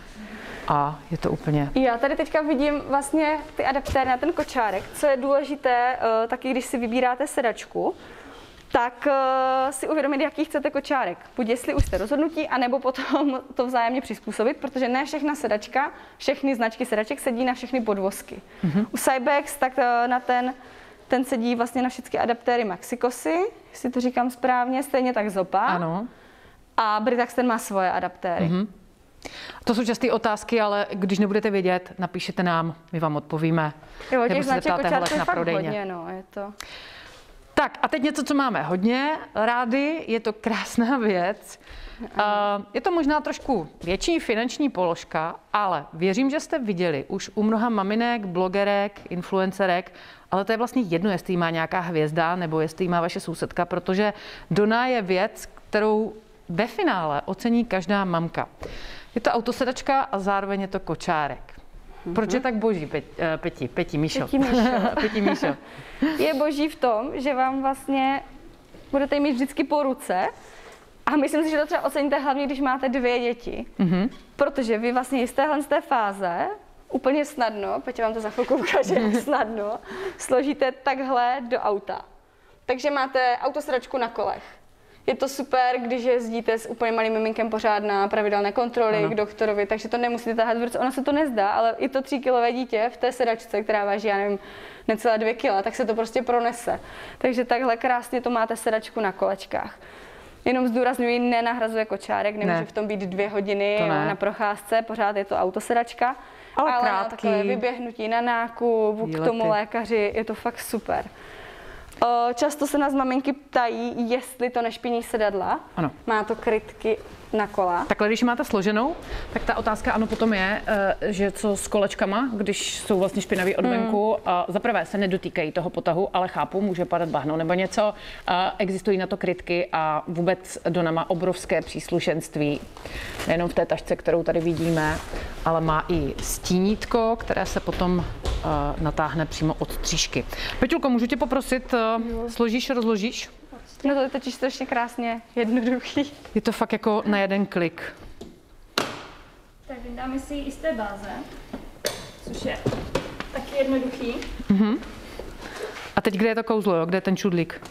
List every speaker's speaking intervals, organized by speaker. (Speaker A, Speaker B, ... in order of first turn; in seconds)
Speaker A: 0.7-1.7, 18.6-18.9, 25.7-26.1, 28.4-28.7, 29.6-33.7, 34.3-35.8, 37.5-41.6, 42.1-58.5, 59.1-61.6, 62.1-66.1, 73.8-74.1, 103.8-104.2, 106.6-107.6, 109.0-109.5, 117.9-132.6, 133.2-143.3, 146.3-147.9, 154.5-154.8, 155.9-157.6
Speaker B: 1.7-8.0, 8.7-20.5, 21.1-25.8, 26.8-28.6, 34.1-36.5, 62.0-62.4, 64.1-68.2, 68.9-70.3, 71.0-73.7, 74.3-82.0, 82.7-84.5, 85.1-99.8, 100.4-111.1, 112.0-117.9, 123.6-124.0, 143.8-146.2, 149.7-151.3, 152.2-152.7, 153.3-154.3